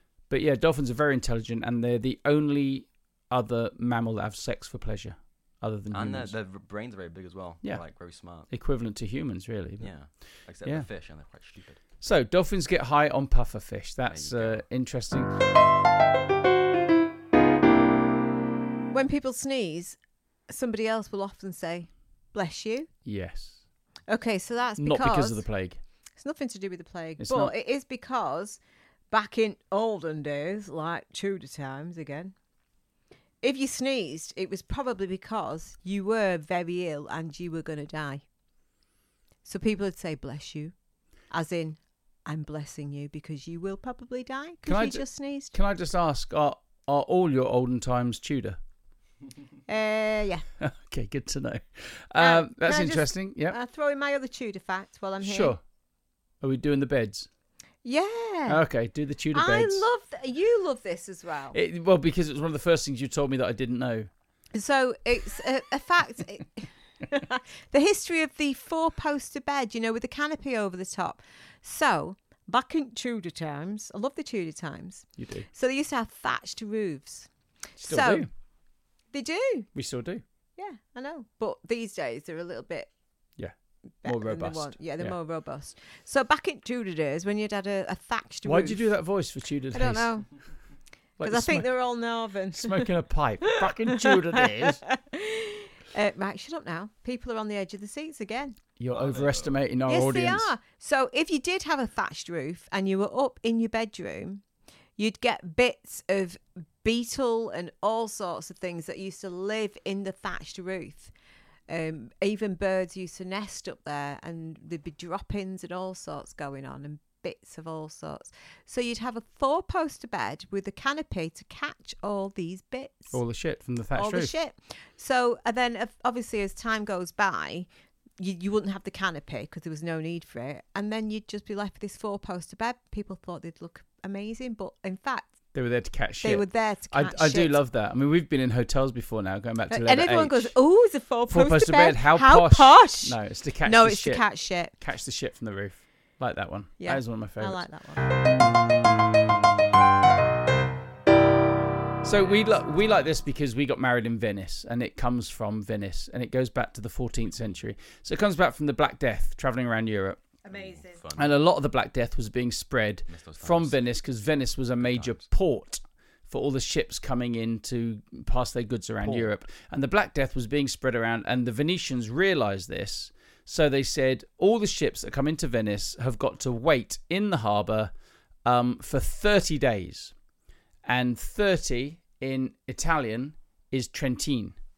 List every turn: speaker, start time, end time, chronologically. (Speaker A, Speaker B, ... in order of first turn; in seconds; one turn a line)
Speaker A: 0.3-6.3
Speaker B: 5.9-8.5
Speaker A: 8.5-9.9
Speaker B: 9.8-11.8
Speaker A: 12.0-15.3
Speaker B: 14.1-14.6
Speaker C: 18.9-20.0
Speaker C: 20.5-22.9
Speaker A: 23.1-23.6
Speaker C: 24.1-25.4
Speaker A: 24.8-25.8
Speaker C: 26.2-28.6
Speaker A: 27.2-27.5
Speaker C: 29.1-32.3
Speaker C: 33.4-38.2
Speaker C: 39.5-40.7
Speaker C: 41.3-45.5
Speaker A: 44.7-48.6
Speaker C: 49.7-50.5
Speaker A: 50.6-53.6
Speaker C: 52.2-55.6
Speaker A: 55.2-55.6
Speaker A: 56.4-57.3
Speaker C: 57.8-58.6
Speaker A: 58.5-59.9
Speaker C: 59.3-61.6
Speaker A: 61.5-64.1
Speaker C: 64.5-77.3
Speaker A: 75.2-75.5
Speaker A: 77.8-78.3
Speaker C: 77.8-78.3
Speaker C: 79.1-79.7
Speaker A: 79.8-80.2
Speaker C: 80.6-82.9
Speaker A: 83.4-85.1
Speaker C: 84.0-88.8
Speaker A: 88.5-90.1
Speaker C: 89.7-90.3
Speaker A: 91.2-91.8
Speaker C: 91.2-92.9
Speaker A: 92.5-94.8
Speaker C: 93.5-98.6
Speaker A: 98.8-100.5
Speaker B: 98.9-99.5
Speaker C: 99.9-104.4
Speaker C: 105.0-111.1
Speaker C: 111.7-123.2
Speaker A: 123.1-124.3
Speaker C: 124.0-135.3
Speaker A: 135.5-140.6
Speaker C: 136.2-137.6
Speaker C: 139.7-144.7
Speaker A: 141.3-147.6
Speaker C: 146.8-148.1
Speaker A: 152.0-160.2
Speaker C: 160.4-161.0
Speaker B: 160.5-161.3
Speaker A: 161.2-177.9
Speaker B: 163.1-163.8
Speaker B: 164.8-165.2
Speaker A: 178.4-180.1
Speaker A: 180.8-184.6